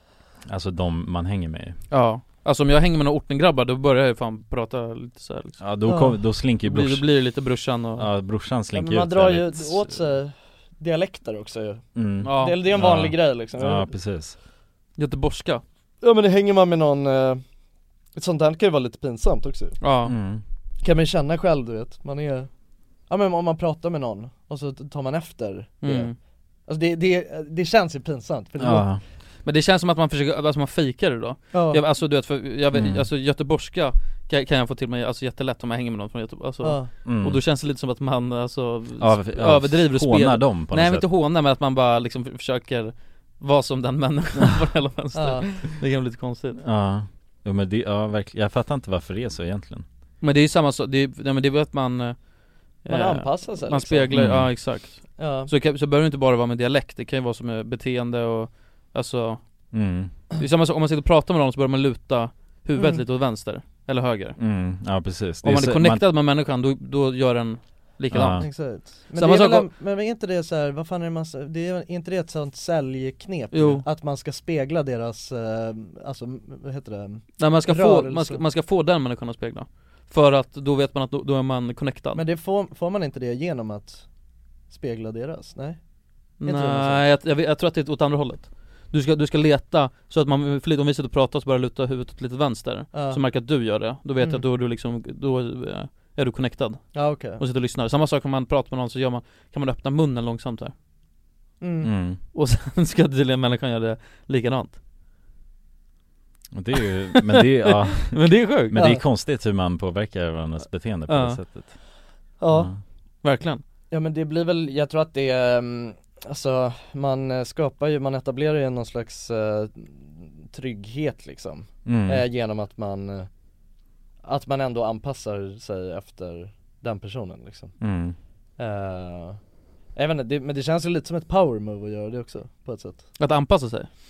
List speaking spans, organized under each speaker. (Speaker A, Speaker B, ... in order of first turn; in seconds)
Speaker A: 0.5-1.8, 5.6-7.0, 8.0-10.0, 11.9-14.3, 20.0-20.4, 28.6-29.0, 32.7-33.0, 37.0-37.4, 39.0-41.0, 46.6-49.8, 54.1-54.5, 59.7-60.1, 64.4-66.0, 68.1-68.5, 101.8-102.2, 106.5-111.8, 112.5-112.8, 121.8-122.2, 127.8-128.2
Speaker B: 1.9-5.6, 6.6-8.1, 12.2-12.6, 15.0-15.6, 19.8-20.1, 25.8-26.1, 29.4-46.6, 50.2-52.2, 52.8-59.4, 60.4-64.4, 65.4-69.7, 73.5-73.8, 77.4-82.2, 86.4-100.7, 102.3-104.8, 107.4-108.8, 111.1-111.4, 113.2-113.6, 133.2-133.9
Speaker C: 5.9-6.2, 8.7-13.9, 16.0-17.4, 18.1-19.8, 20.8-22.5, 23.1-26.1, 26.7-28.9, 31.5-31.8, 36.6-36.9, 45.1-45.5, 52.9-54.1, 55.2-55.5, 62.8-63.0, 68.4-78.4, 82.1-84.1, 84.7-85.8, 86.4-87.0, 92.9-93.2, 96.9-97.4, 101.6-101.9, 108.7-109.0, 112.4-112.7, 113.9-123.3, 124.2-127.8, 128.6-129.4, 129.9-133.1